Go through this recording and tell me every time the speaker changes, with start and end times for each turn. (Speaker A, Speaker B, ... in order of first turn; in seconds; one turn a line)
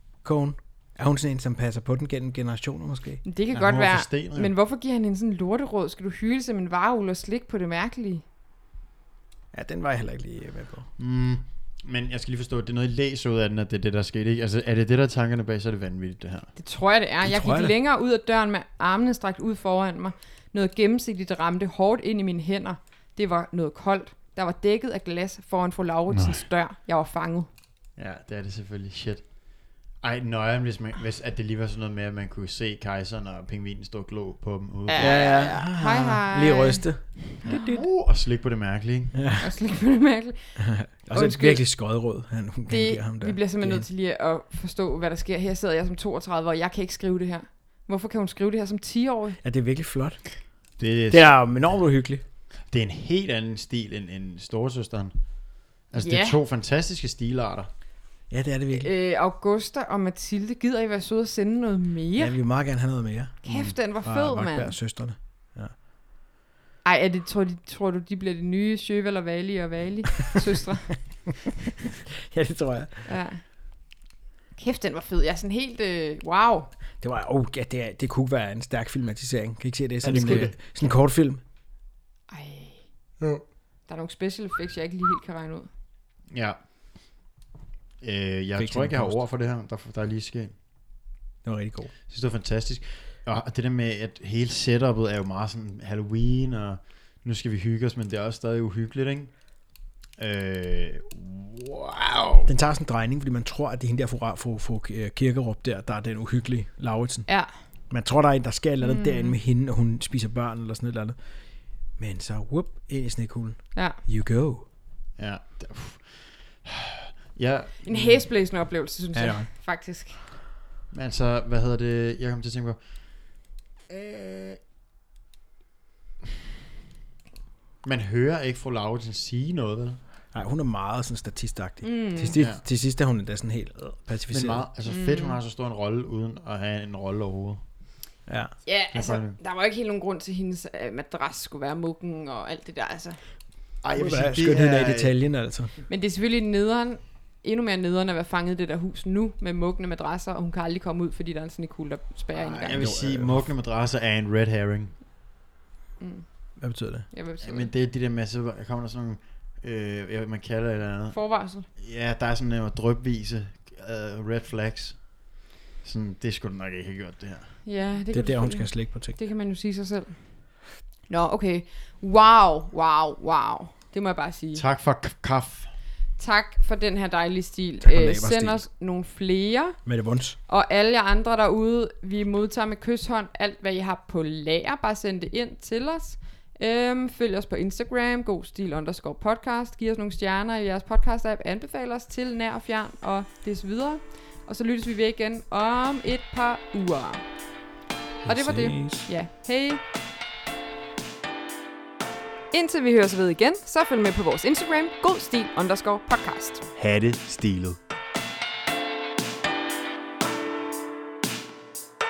Speaker A: 0.2-3.2
Speaker B: 3.2-8.2
Speaker C: 3.5-4.5
Speaker A: 9.5-10.9
Speaker C: 11.0-16.5
Speaker B: 16.6-27.5
Speaker A: 17.2-17.7
Speaker C: 26.1-26.4
Speaker C: 28.0-29.2
Speaker C: 30.0-35.3
Speaker B: 34.9-36.9
Speaker A: 35.0-37.8
Speaker B: 37.4-37.8
Speaker C: 37.5-39.2
Speaker A: 39.1-39.5
Speaker B: 39.4-40.5
Speaker A: 40.6-43.9
Speaker B: 41.1-41.6
Speaker B: 42.7-49.4
Speaker A: 49.4-50.3
Speaker C: 50.8-51.4
Speaker A: 51.1-52.2
Speaker C: 52.7-55.1
Speaker C: 55.9-57.7
Speaker B: 56.0-56.4
Speaker A: 58.3-58.9
Speaker B: 58.7-62.4
Speaker A: 62.2-65.7
Speaker B: 63.4-64.8
Speaker B: 66.8-71.0
Speaker A: 72.0-73.1
Speaker B: 73.0-73.4
Speaker B: 74.5-76.7
Speaker A: 77.0-81.4
Speaker C: 80.0-80.5
Speaker B: 82.3-82.9
Speaker B: 83.9-85.7
Speaker C: 86.3-86.6
Speaker C: 88.0-90.5
Speaker A: 88.5-89.2
Speaker A: 91.4-91.9
Speaker C: 92.1-99.3
Speaker C: 100.2-102.5
Speaker A: 102.5-107.3
Speaker A: 107.9-111.2
Speaker B: 108.8-109.3
Speaker A: 112.0-114.6
Speaker C: 115.2-118.2
Speaker B: 117.8-120.2
Speaker A: 119.1-119.5
Speaker C: 120.9-122.8
Speaker C: 123.9-124.6
Speaker C: 127.8-130.0
Speaker A: 130.3-134.7
Speaker B: 131.8-132.4
Speaker C: 132.3-132.6
Speaker C: 134.3-137.6
Speaker B: 134.8-135.4
Speaker A: 138.3-138.5
Speaker B: 138.6-143.2
Speaker C: 138.9-139.4
Speaker C: 143.8-145.1
Speaker A: 143.9-145.7
Speaker B: 145.9-152.8
Speaker C: 152.3-154.9
Speaker A: 152.7-153.5
Speaker B: 156.0-156.2
Speaker A: 156.6-157.1
Speaker B: 157.1-157.7
Speaker C: 157.4-161.2
Speaker B: 161.1-161.7
Speaker C: 161.8-165.0
Speaker C: 165.8-167.6
Speaker B: 167.7-170.2
Speaker A: 168.1-169.2
Speaker B: 171.1-174.6
Speaker C: 174.5-175.7
Speaker B: 176.2-179.8
Speaker A: 177.8-178.6
Speaker A: 179.8-180.4
Speaker B: 180.5-197.2
Speaker A: 198.2-199.1
Speaker B: 198.2-199.8
Speaker B: 202.5-206.6
Speaker C: 206.8-207.8